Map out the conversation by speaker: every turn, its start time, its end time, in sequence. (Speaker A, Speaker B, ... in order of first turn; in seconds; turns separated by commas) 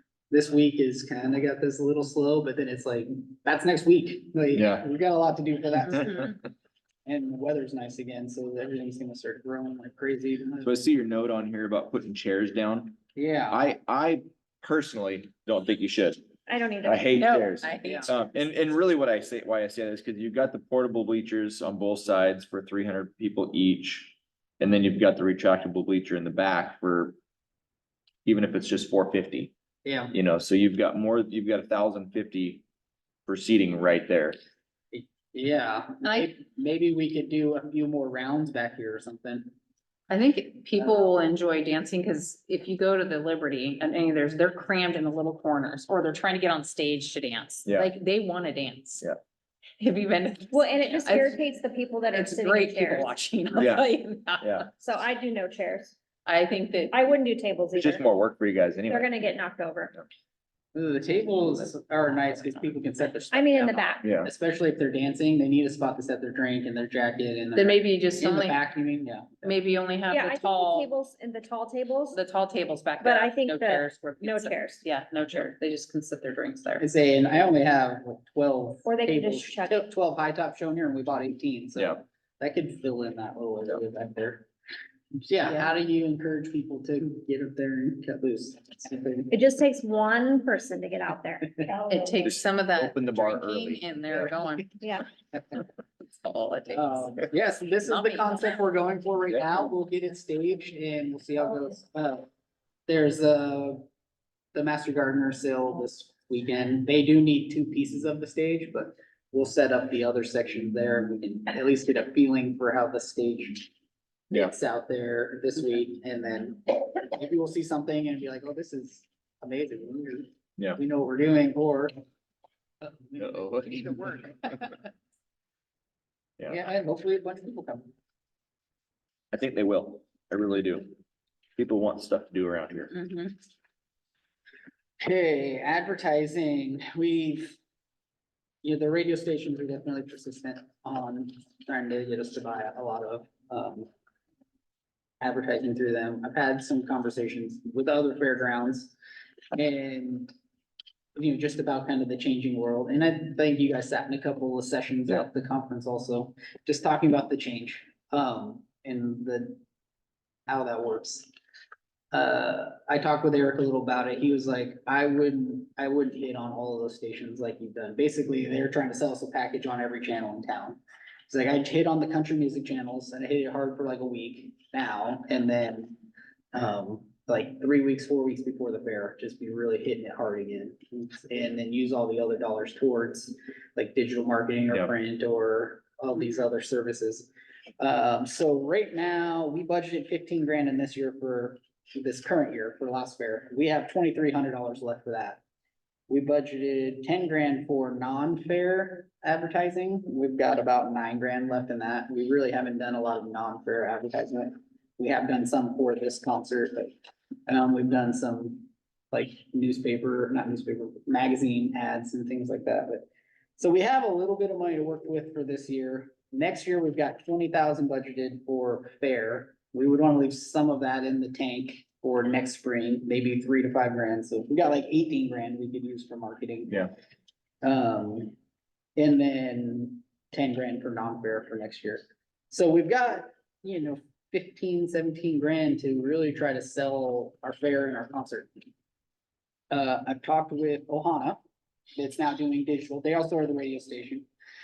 Speaker A: 0.3-6.3, Speaker B: 4.5-4.8, Speaker A: 7.0-10.8, Speaker B: 10.6-13.0, Speaker A: 13.2-13.6, Speaker B: 13.5-16.2, Speaker C: 16.5-17.3, Speaker B: 16.8-27.1, Speaker D: 17.1-18.2, Speaker A: 17.8-18.1, Speaker B: 28.2-29.5, Speaker A: 29.8-30.1, Speaker B: 30.1-32.6, Speaker B: 33.3-34.4, Speaker A: 34.9-39.5, Speaker D: 40.1-49.0, Speaker D: 49.8-51.4, Speaker C: 50.5-53.1, Speaker D: 52.1-54.7, Speaker B: 53.5-53.9, Speaker B: 54.4-54.7, Speaker C: 54.8-55.9, Speaker D: 56.2-57.0, Speaker C: 56.9-58.0, Speaker B: 57.8-59.1, Speaker C: 58.9-59.9, Speaker A: 60.7-69.5, Speaker C: 63.3-64.0, Speaker B: 64.0-64.3, Speaker D: 67.5-68.6, Speaker D: 69.4-70.9, Speaker C: 70.1-72.2, Speaker D: 72.1-76.8, Speaker C: 73.0-74.8, Speaker A: 76.8-84.5, Speaker C: 78.8-79.8, Speaker A: 85.2-89.4, Speaker C: 89.3-92.3, Speaker D: 91.9-94.8, Speaker B: 92.2-94.3, Speaker C: 94.8-95.1, Speaker A: 95.3-95.6, Speaker D: 96.2-97.1, Speaker A: 96.7-102.3, Speaker D: 97.8-98.5, Speaker A: 102.9-103.9, Speaker A: 104.5-113.7, Speaker A: 114.3-121.9, Speaker A: 122.8-124.9, Speaker B: 123.2-123.9, Speaker A: 126.5-127.9, Speaker B: 129.3-131.0, Speaker B: 131.6-132.9, Speaker D: 132.9-133.3, Speaker A: 135.0-137.6, Speaker A: 138.6-143.9, Speaker A: 145.2-148.9, Speaker A: 149.5-150.3, Speaker A: 151.2-159.6, Speaker A: 160.5-161.3, Speaker A: 162.1-176.0, Speaker A: 176.5-187.3, Speaker A: 187.8-195.4, Speaker A: 196.1-206.9, Speaker A: 207.5-213.1, Speaker A: 213.6-226.8, Speaker A: 227.6-228.3, Speaker A: 228.9-238.5, Speaker A: 239.7-241.4, Speaker A: 242.0-244.3